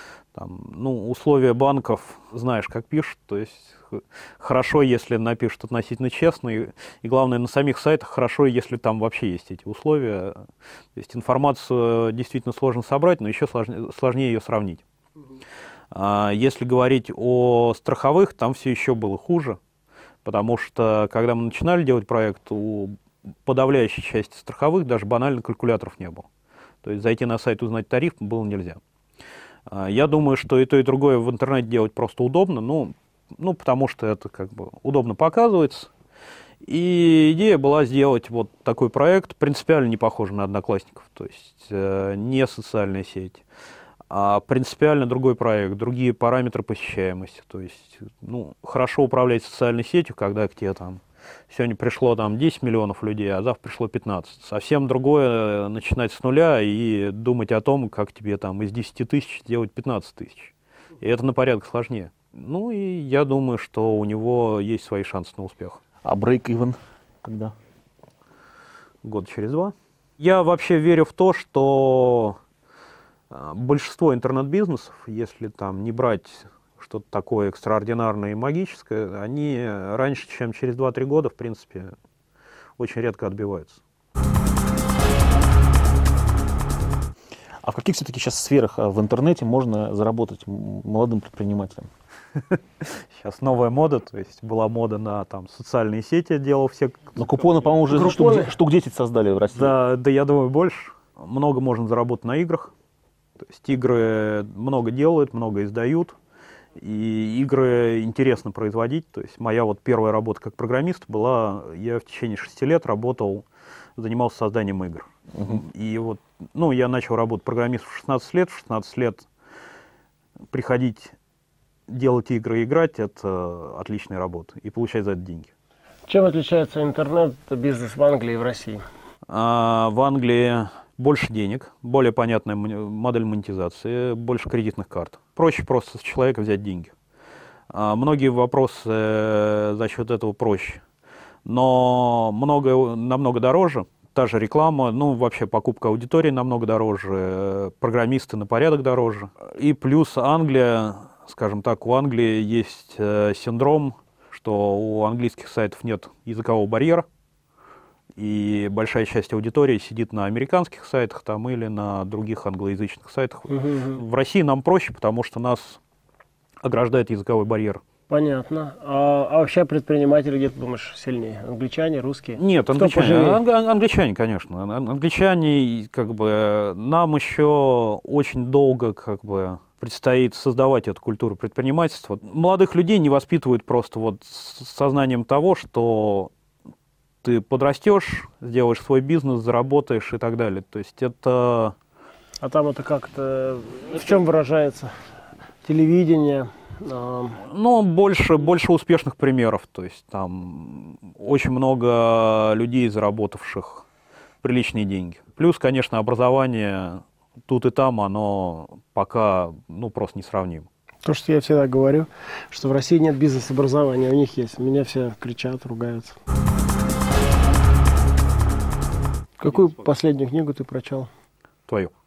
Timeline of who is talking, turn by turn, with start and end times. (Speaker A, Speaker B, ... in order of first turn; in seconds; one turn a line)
Speaker A: 0.3-14.8
Speaker A: 15.9-19.6
Speaker A: 20.2-26.3
Speaker A: 26.8-28.8
Speaker A: 29.7-35.9
Speaker A: 36.6-43.4
Speaker A: 44.1-65.8
Speaker B: 66.0-67.5
Speaker A: 69.0-72.4
Speaker A: 73.3-81.9
Speaker A: 82.8-83.8
Speaker B: 87.6-91.9
Speaker A: 92.4-97.2
Speaker B: 97.2-99.8
Speaker C: 97.9-98.5
Speaker A: 99.5-102.7
Speaker A: 103.4-106.2
Speaker A: 106.8-113.5
Speaker A: 114.0-119.3
Speaker B: 115.3-115.6
Speaker A: 120.5-121.1
Speaker A: 121.9-125.5
Speaker C: 126.1-128.8
Speaker A: 129.3-136.9
Speaker A: 137.7-140.8
Speaker A: 141.4-157.1
Speaker A: 158.2-165.8
Speaker C: 163.5-164.0
Speaker A: 166.6-167.8
Speaker C: 168.1-173.4
Speaker A: 172.4-186.3
Speaker A: 187.2-191.8
Speaker C: 192.4-194.9
Speaker C: 195.6-197.4
Speaker A: 197.4-203.8
Speaker A: 204.4-210.7
Speaker C: 211.1-216.2
Speaker C: 219.4-221.1